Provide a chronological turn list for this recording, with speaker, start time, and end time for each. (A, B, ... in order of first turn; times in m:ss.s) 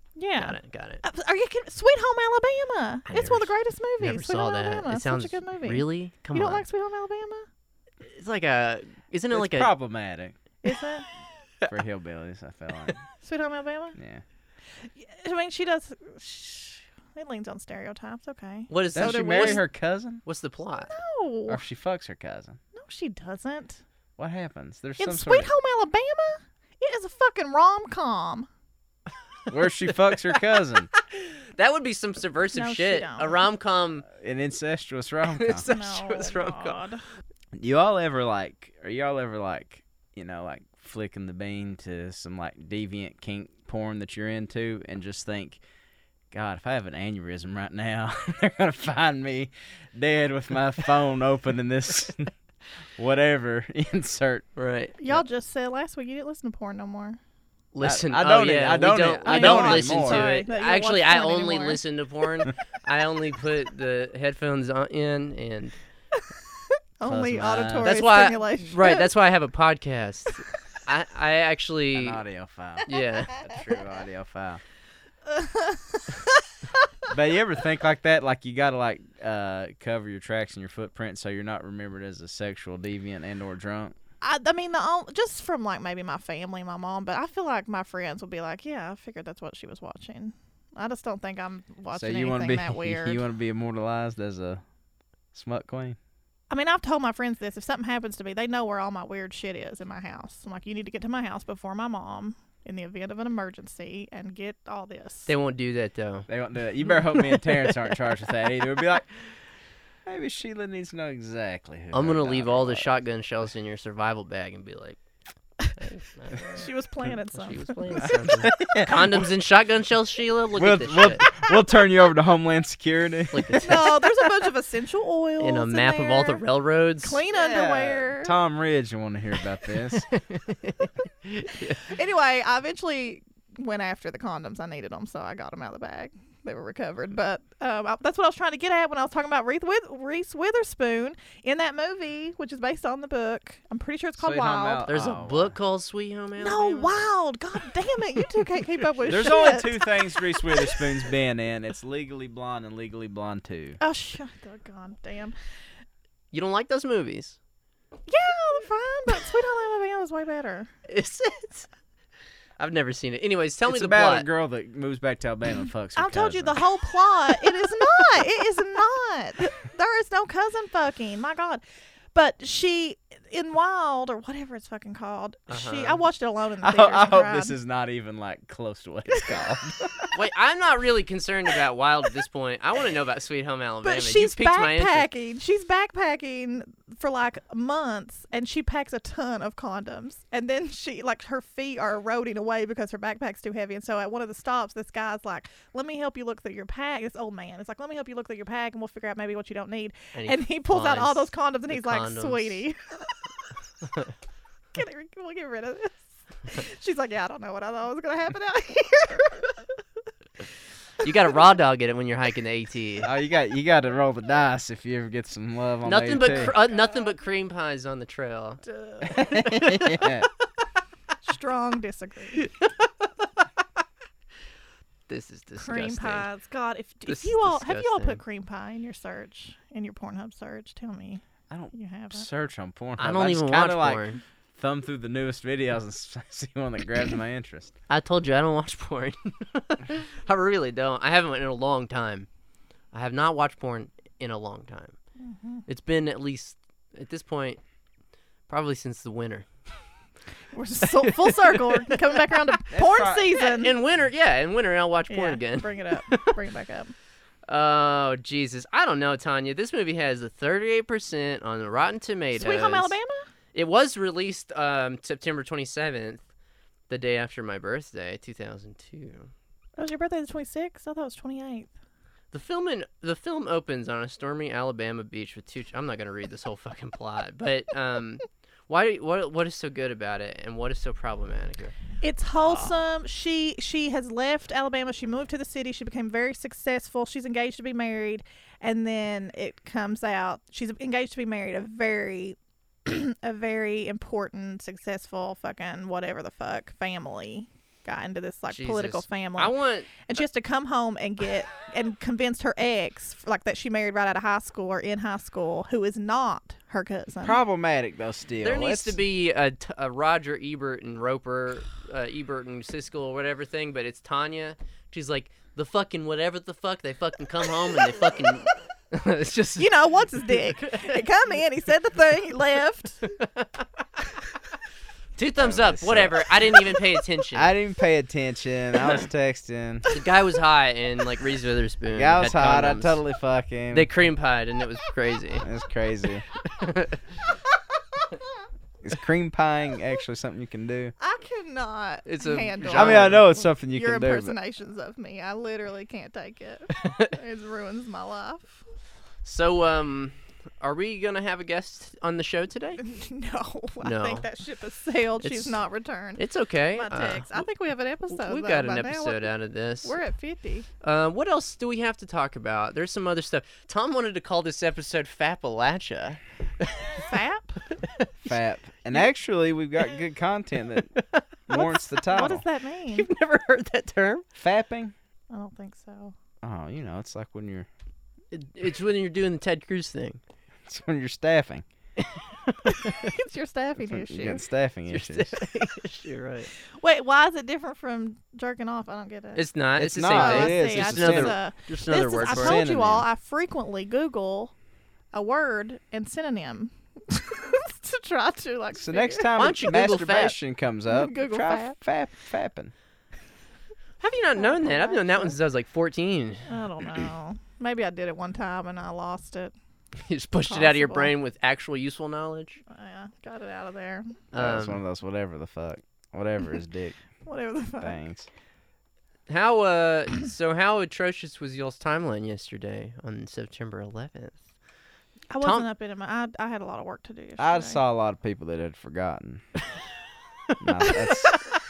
0:00.2-0:07.5 A
0:00.4-0:01.0 B
0:03.1-0:06.6 B
0:08.0-0:09.7 B
0:09.3-0:10.3 C
0:10.6-0:11.1 A
0:11.7-0:13.0 C
0:13.2-0:14.0 A
0:14.0-0:14.2 C
0:14.9-0:19.6 A
0:18.7-0:19.6 B
0:18.9-0:20.2 C
0:20.2-0:20.9 B
0:20.8-0:21.6 A
0:21.5-0:22.6 C
0:22.7-0:23.8 A
0:24.2-0:25.5 C
0:25.0-0:28.5 A
0:29.5-0:30.9 C
0:29.5-0:34.1 B
0:32.5-0:33.4 A
0:34.1-0:35.7 C
0:35.3-0:36.8 B
0:35.7-0:37.0 A
0:37.5-0:45.6 C
0:46.3-0:52.3 C
0:53.0-0:54.4 C
0:54.6-0:54.9 B
0:55.0-0:57.2 A
0:57.7-1:05.8 B
0:57.8-1:00.3 C
0:59.2-1:01.8 A
1:07.0-1:09.1 A
1:07.0-1:08.0 C
1:07.8-1:12.2 B
1:11.9-1:14.6 C
1:12.9-1:13.5 B
1:15.3-1:16.4 A
1:17.1-1:24.0 C
1:24.2-1:33.2 A
1:31.9-1:34.6 C
1:35.3-1:36.0 C
1:36.5-1:45.3 A
1:45.3-1:46.3 B
1:46.3-1:49.1 C
1:50.0-1:52.9 C
1:51.9-1:55.0 B
1:55.8-2:01.3 B
1:56.5-1:58.2 A
1:58.0-1:59.3 C
2:00.6-2:03.8 C
2:03.3-2:04.3 B
2:03.6-2:06.4 A
2:05.4-2:07.2 B
2:07.0-2:08.4 A
2:07.3-2:10.1 C
2:09.9-2:11.8 B
2:11.8-2:24.9 A
2:24.2-2:25.5 C
2:24.9-2:27.0 B
2:26.4-2:30.8 A
2:29.0-2:33.8 C
2:33.8-2:35.4 A
2:36.3-2:37.4 B
2:38.1-2:40.7 A
2:40.9-2:41.7 B
2:42.6-2:44.3 B
2:43.7-2:46.6 C
2:46.0-2:51.6 A
2:52.1-2:57.5 A
2:55.5-2:56.0 B
2:56.6-3:00.1 C
3:00.1-3:05.1 B
3:03.8-3:23.0 A
3:20.1-3:22.6 B
3:24.7-3:29.5 A
3:31.0-3:33.1 B
3:33.0-3:36.6 C
3:35.8-3:38.6 B
3:38.6-3:39.4 A
3:39.0-3:40.3 C
3:39.3-3:40.1 B
3:41.2-3:42.4 A
3:42.4-3:42.8 B
3:45.1-3:46.3 B
3:45.6-3:52.2 A
3:47.1-3:48.2 B
3:51.5-3:57.7 C
3:53.0-3:54.2 B
3:57.9-4:02.3 B
4:02.9-4:05.0 B
4:05.2-4:05.6 A
4:05.7-4:07.6 B
4:08.5-4:09.5 B
4:10.5-4:13.7 A
4:10.9-4:12.5 B
4:12.7-4:13.3 C
4:13.4-4:16.3 B
4:15.1-4:16.9 A
4:17.5-4:23.0 B
4:22.3-4:23.2 A
4:23.5-4:26.2 B
4:26.9-4:29.3 B
4:29.8-4:31.7 A
4:32.3-4:41.8 B
4:42.0-4:59.5 A
4:42.4-4:42.8 B
4:58.5-5:00.1 B
5:00.0-5:07.4 A
5:07.2-5:09.0 C
5:08.4-5:21.0 B
5:19.6-5:23.1 A
5:23.1-5:23.6 B
5:25.2-5:27.5 B
5:25.4-5:26.3 C
5:27.3-5:29.9 C
5:29.9-5:33.0 B
5:31.9-5:33.9 C
5:33.7-5:35.4 B
5:35.4-5:36.2 C
5:36.4-5:37.0 B
5:38.8-5:40.9 C
5:41.0-5:48.6 A
5:42.0-5:43.2 B
5:42.7-5:44.4 C
5:46.8-5:47.1 B
5:49.2-5:52.8 B
5:52.8-5:59.3 A
5:53.8-5:54.3 B
5:55.2-5:55.6 B
5:56.2-5:57.5 B
5:58.1-5:59.9 B
5:59.8-6:00.7 A
6:00.8-6:07.0 B
6:07.0-6:07.6 A
6:07.7-6:08.4 B
6:08.2-6:12.4 C
6:10.7-6:11.2 B
6:11.5-6:13.1 A
6:12.9-6:14.2 B
6:14.4-6:14.9 C
6:15.3-6:16.1 A
6:16.4-6:17.7 C
6:18.3-6:20.2 B
6:20.6-6:21.6 C
6:22.0-6:23.0 B
6:22.6-6:24.4 A
6:23.9-6:25.3 C
6:24.9-6:26.5 B
6:26.7-6:29.5 A
6:29.4-6:32.6 B
6:29.8-6:31.4 C
6:30.1-6:34.5 A
6:32.0-6:33.0 C
6:35.1-6:39.3 A
6:38.7-6:42.7 C
6:39.4-6:40.4 B
6:40.9-6:41.8 A
6:44.0-6:46.4 B
6:44.4-6:45.4 A
6:46.5-6:49.5 A
6:50.1-6:52.6 B
6:50.5-6:51.1 A
6:52.7-6:54.2 A
6:54.3-6:54.8 B
6:54.3-6:57.0 C
6:57.2-6:58.0 A
6:57.8-6:58.3 C
6:59.3-7:04.4 B
7:05.3-7:07.8 A
7:05.4-7:05.7 B
7:07.4-7:09.4 C
7:10.6-7:11.4 C